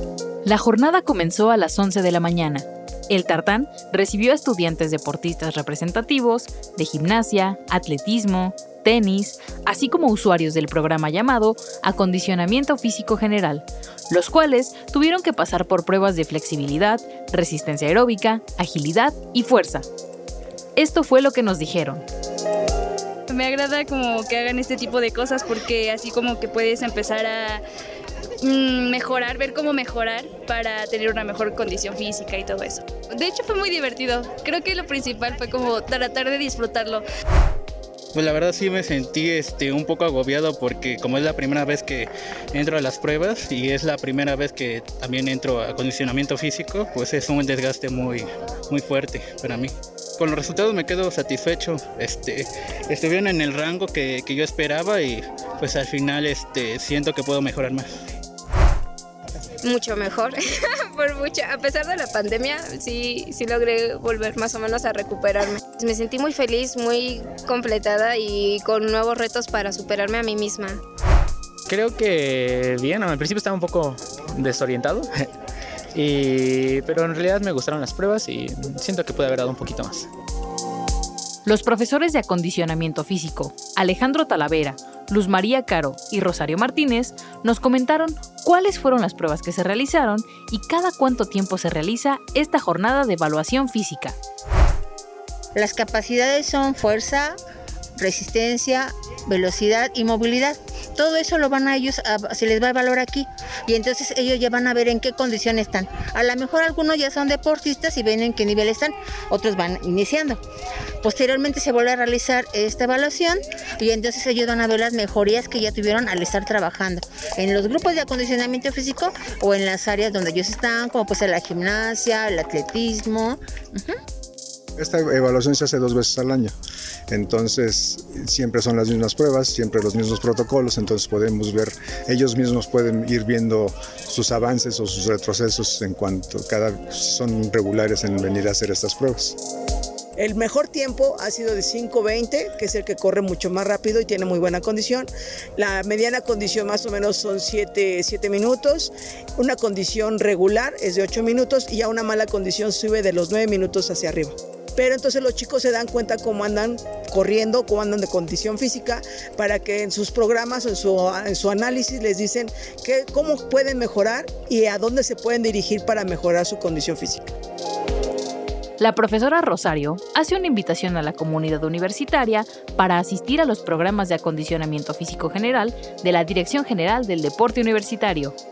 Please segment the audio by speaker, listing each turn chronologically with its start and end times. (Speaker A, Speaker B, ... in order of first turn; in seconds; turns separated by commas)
Speaker A: 0.4-19.8, Speaker A: 20.8-22.0, Speaker B: 23.3-27.6, Speaker B: 28.4-37.0, Speaker C: 38.1-57.9, Speaker D: 59.6-70.8, Speaker E: 71.7-75.3, Speaker E: 75.9-80.1, Speaker A: 81.4-94.2, Speaker F: 95.5-97.3, Speaker F: 98.0-110.4, Speaker F: 111.0-123.9, Speaker G: 124.8-126.5, Speaker G: 127.1-139.3, Speaker H: 140.2-167.3, Speaker A: 168.8-178.3